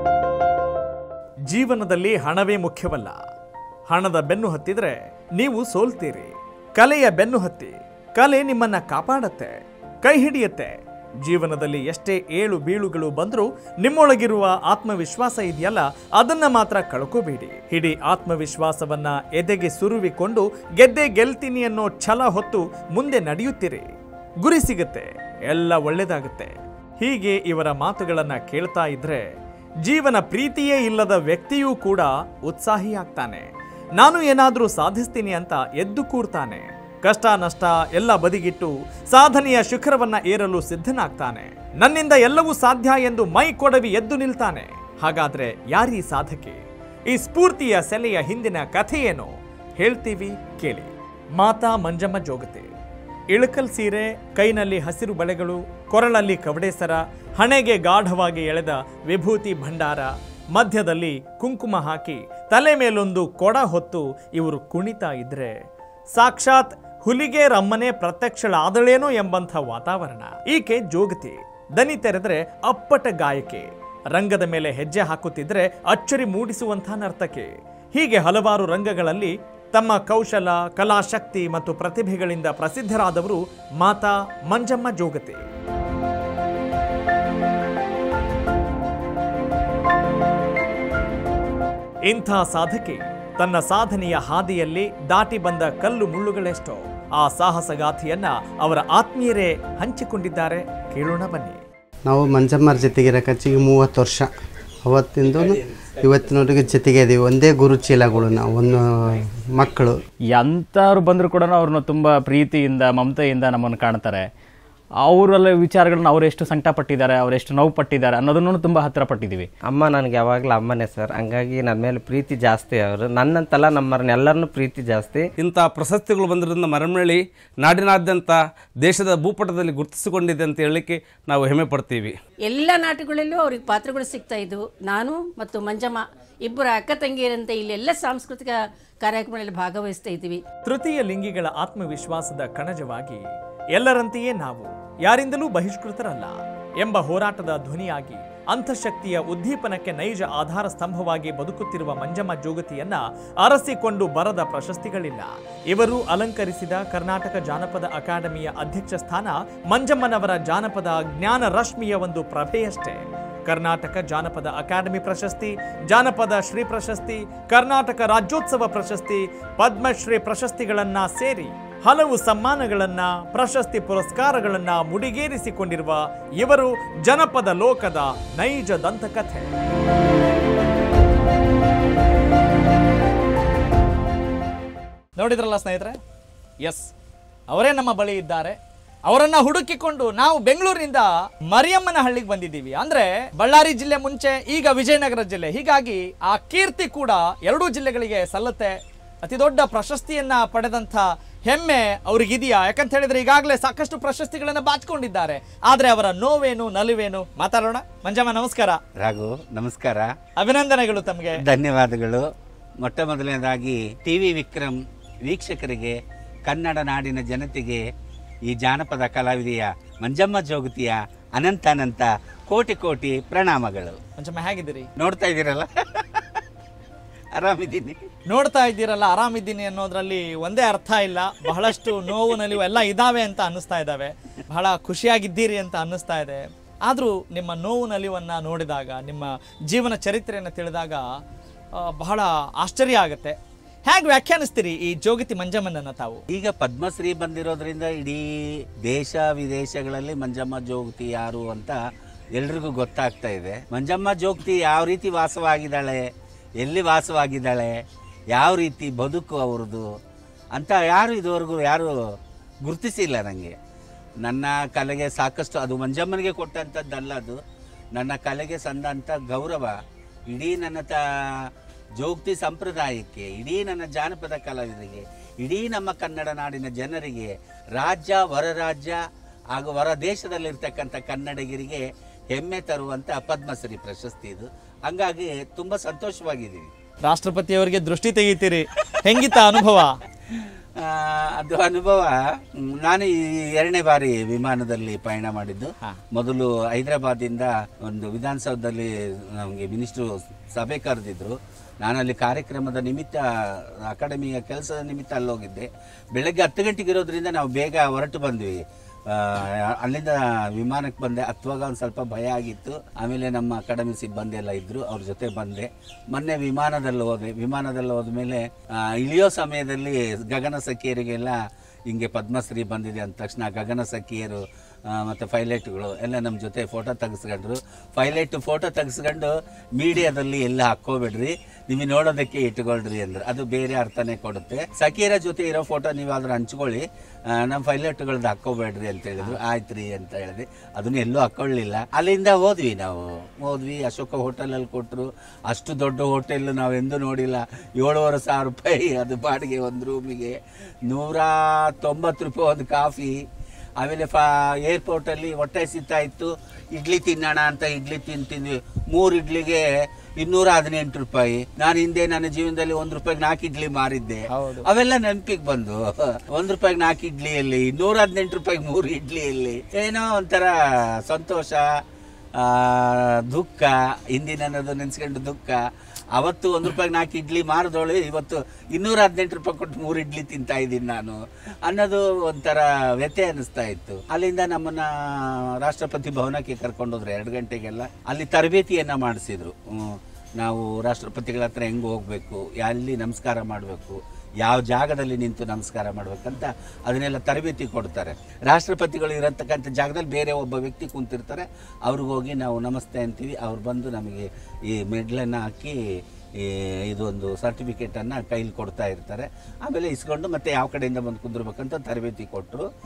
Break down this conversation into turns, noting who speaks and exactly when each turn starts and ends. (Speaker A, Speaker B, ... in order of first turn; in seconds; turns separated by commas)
Speaker A: 1.5-3.2, Speaker A: 3.9-29.3, Speaker A: 29.8-52.7, Speaker A: 53.3-65.6, Speaker A: 66.2-85.5, Speaker A: 92.1-101.6, Speaker B: 102.1-104.3, Speaker B: 104.8-110.0, Speaker C: 110.3-114.2, Speaker C: 115.0-119.5, Speaker D: 119.7-125.3, Speaker E: 125.4-132.1, Speaker F: 132.4-140.4, Speaker A: 140.6-179.5, Speaker A: 185.2-186.0, Speaker A: 186.6-186.9, Speaker A: 187.5-208.8, Speaker G: 209.0-210.1, Speaker A: 210.4-211.4, Speaker G: 211.4-212.3, Speaker G: 212.8-217.8, Speaker G: 218.5-224.0, Speaker A: 224.2-224.9, Speaker G: 225.0-226.4, Speaker G: 227.4-228.0, Speaker A: 228.3-241.0, Speaker A: 241.8-246.2, Speaker G: 246.3-248.3, Speaker G: 248.8-251.8, Speaker G: 252.4-256.1, Speaker G: 256.6-257.8, Speaker G: 258.3-259.9, Speaker G: 260.6-261.9, Speaker G: 262.6-263.6, Speaker G: 264.2-267.4, Speaker G: 267.9-269.8, Speaker G: 270.3-271.5, Speaker G: 272.0-279.0, Speaker G: 279.5-286.7, Speaker A: 287.0-290.0, Speaker G: 290.3-321.4, Speaker G: 321.9-353.2, Speaker G: 353.8-359.7, Speaker G: 360.2-370.5, Speaker A: 364.3-364.7, Speaker G: 371.1-371.7, Speaker G: 372.4-375.6, Speaker G: 376.1-405.8, Speaker G: 406.4-412.6